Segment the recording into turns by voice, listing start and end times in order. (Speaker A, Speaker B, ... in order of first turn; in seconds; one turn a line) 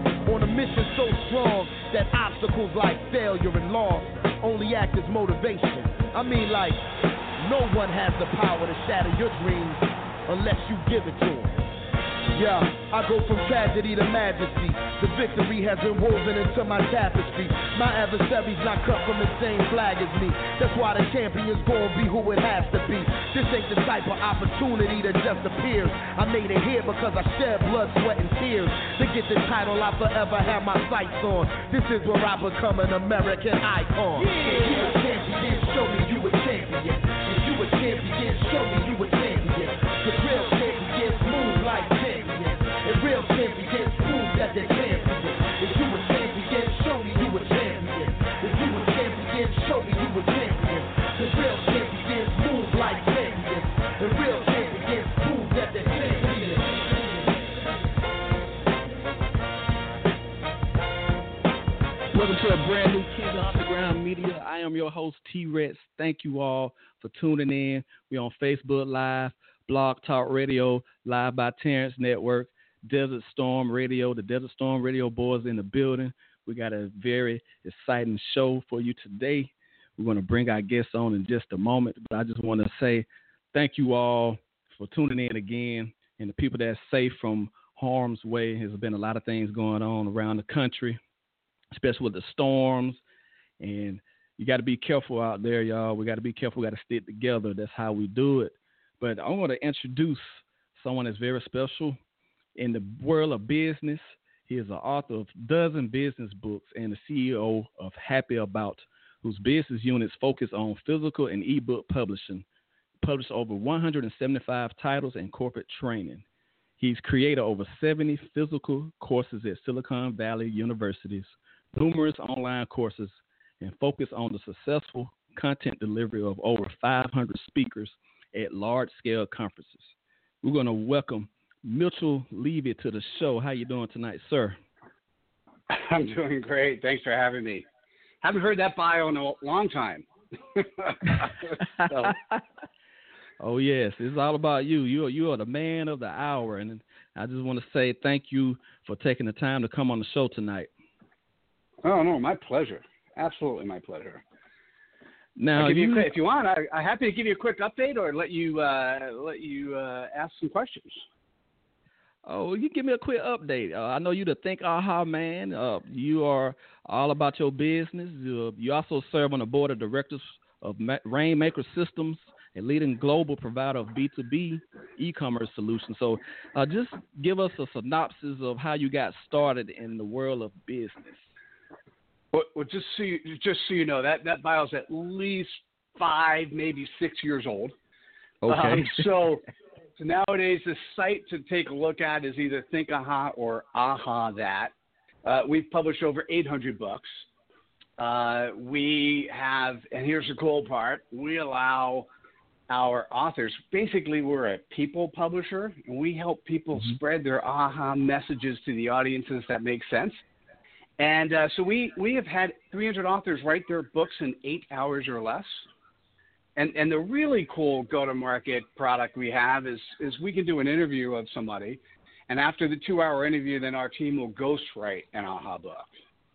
Speaker A: 0.2-6.8
Speaker A: 7.4-11.6
Speaker A: 12.3-57.2
Speaker B: 62.1-91.0
Speaker B: 91.7-93.0
Speaker B: 93.6-102.0
Speaker B: 102.6-112.5
Speaker B: 113.0-116.2
Speaker B: 116.8-134.6
Speaker C: 135.7-137.6
Speaker C: 138.2-142.2
Speaker B: 142.1-142.4
Speaker B: 143.4-150.7
Speaker C: 151.8-154.2
Speaker B: 155.3-156.1
Speaker C: 155.6-161.0
Speaker B: 162.2-181.2
Speaker C: 182.3-187.7
Speaker B: 188.4-189.0
Speaker C: 188.5-189.4
Speaker C: 190.0-194.7
Speaker C: 195.2-197.2
Speaker C: 198.0-202.1
Speaker C: 202.7-210.2
Speaker C: 211.0-215.6
Speaker C: 216.6-225.9